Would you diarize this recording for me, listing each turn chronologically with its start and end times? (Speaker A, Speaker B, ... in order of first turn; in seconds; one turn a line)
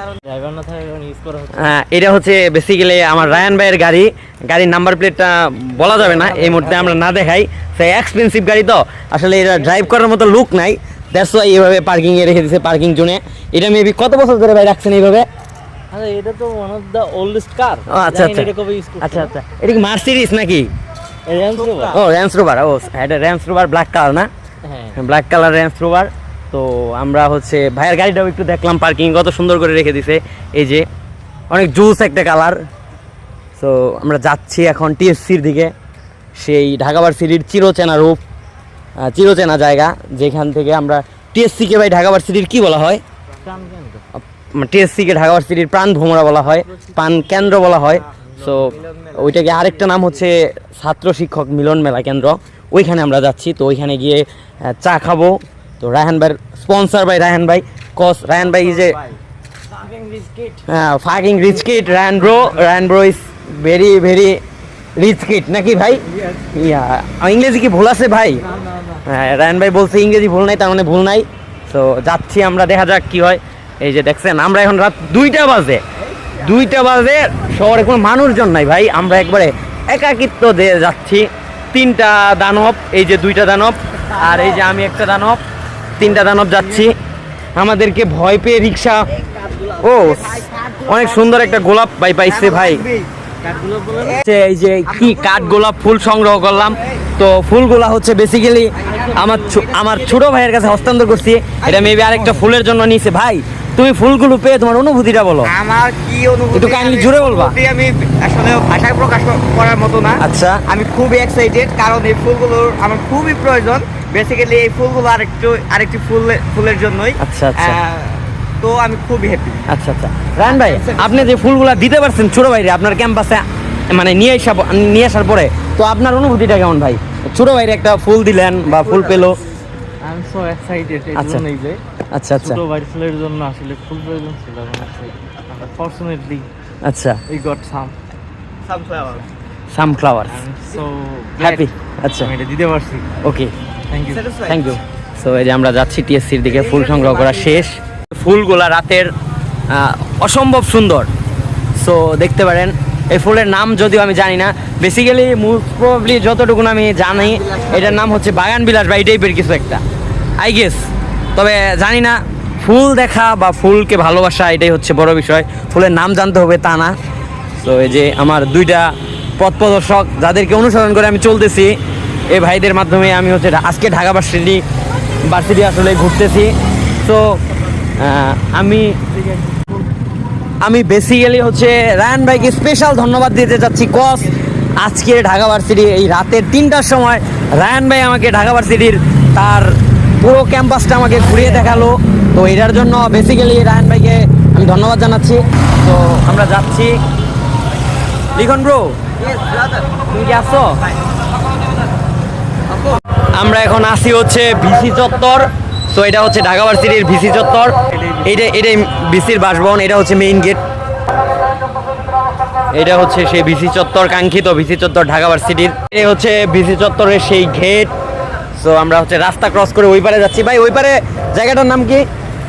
Speaker A: 0.2-1.7
Speaker B: 1.6-15.3
Speaker A: 5.9-7.0
Speaker A: 15.9-19.3
Speaker B: 17.9-20.7
Speaker A: 21.3-22.0
Speaker B: 21.9-24.3
Speaker A: 24.6-25.0
Speaker B: 24.9-30.9
Speaker B: 31.5-32.6
Speaker B: 33.6-35.7
Speaker B: 36.4-38.2
Speaker B: 39.0-43.0
Speaker A: 43.4-44.0
Speaker B: 44.2-59.0
Speaker A: 48.1-48.8
Speaker C: 48.9-49.7
Speaker C: 58.6-59.1
Speaker A: 59.8-60.6
Speaker B: 60.7-64.4
Speaker B: 65.0-68.4
Speaker B: 69.0-75.8
Speaker B: 76.4-85.4
Speaker B: 86.0-87.0
Speaker B: 87.6-89.1
Speaker B: 89.8-92.9
Speaker C: 90.4-90.9
Speaker C: 92.3-93.1
Speaker A: 93.4-94.2
Speaker B: 94.2-105.5
Speaker C: 95.0-95.6
Speaker A: 98.8-99.7
Speaker C: 99.5-100.0
Speaker C: 101.6-102.4
Speaker C: 105.5-119.7
Speaker B: 106.5-107.6
Speaker B: 110.2-110.6
Speaker B: 117.2-117.8
Speaker B: 119.7-129.4
Speaker C: 120.5-121.3
Speaker C: 128.8-129.3
Speaker A: 130.0-131.8
Speaker B: 131.2-131.4
Speaker B: 132.1-132.6
Speaker A: 132.4-136.5
Speaker B: 136.8-137.2
Speaker A: 137.3-138.0
Speaker C: 138.7-139.2
Speaker B: 139.7-140.4
Speaker A: 140.3-143.1
Speaker B: 141.4-142.3
Speaker B: 143.2-143.5
Speaker A: 143.9-144.3
Speaker C: 144.1-144.7
Speaker B: 144.4-149.1
Speaker C: 146.8-147.1
Speaker B: 149.7-151.1
Speaker B: 151.8-159.8
Speaker B: 160.4-166.9
Speaker B: 167.6-171.8
Speaker B: 172.3-174.6
Speaker B: 175.3-177.4
Speaker B: 178.0-179.0
Speaker B: 180.6-197.0
Speaker B: 198.3-199.0
Speaker C: 199.2-199.9
Speaker B: 200.1-200.8
Speaker C: 202.7-203.0
Speaker B: 203.3-210.6
Speaker B: 212.7-217.9
Speaker B: 218.6-222.1